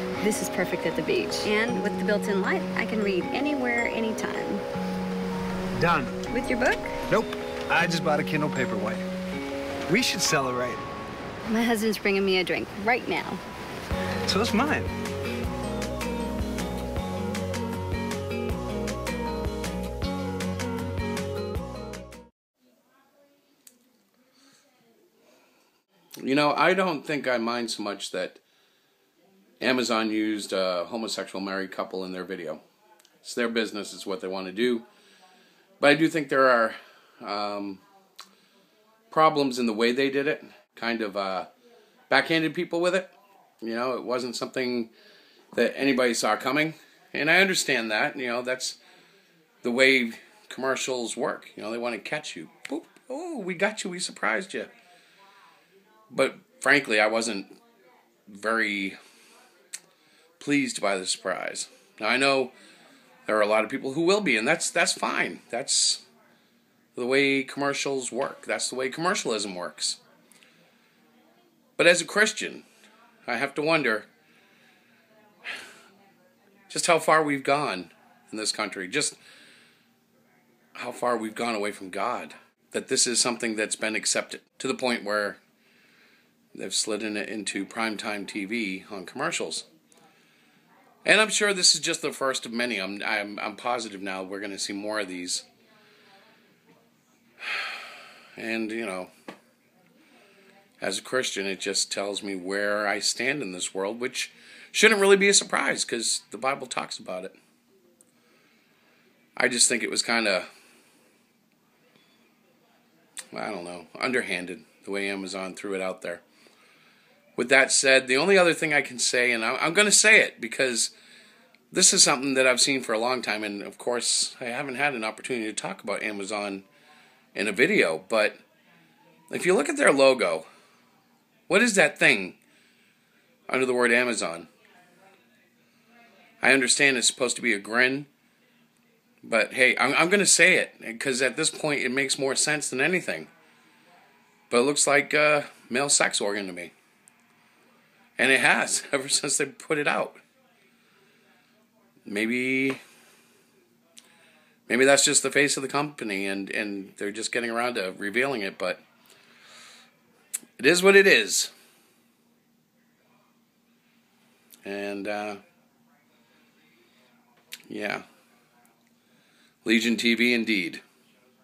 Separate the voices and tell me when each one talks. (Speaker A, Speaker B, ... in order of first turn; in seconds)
Speaker A: 0.2-4.6, 6.3-7.0, 11.5-13.4
Speaker B: 5.8-6.2, 7.1-9.0, 9.9-10.8, 14.2-14.9
Speaker C: 26.2-28.4, 29.6-32.6, 33.2-34.8, 35.8-37.8, 39.1-41.5, 42.1-44.9, 45.5-48.8, 49.6-54.7, 56.1-57.6, 58.3-59.0, 60.4-62.5, 63.3-66.0, 66.9-70.0, 71.8-72.6, 73.3-74.1, 76.7-79.2, 80.8-85.4, 86.5-89.7, 91.0-95.5, 98.3-99.1, 100.8-107.3, 109.3-110.5, 113.3-116.2, 117.3-120.9, 121.7-126.7, 127.3-128.4, 129.3-130.4, 131.5-132.4, 133.5-134.5, 136.4-138.1, 139.2-143.3, 144.5-146.7, 148.2-150.2, 152.1-152.8, 154.7-158.8, 160.6-161.5, 164.6-165.4, 167.7-168.0, 169.6-170.8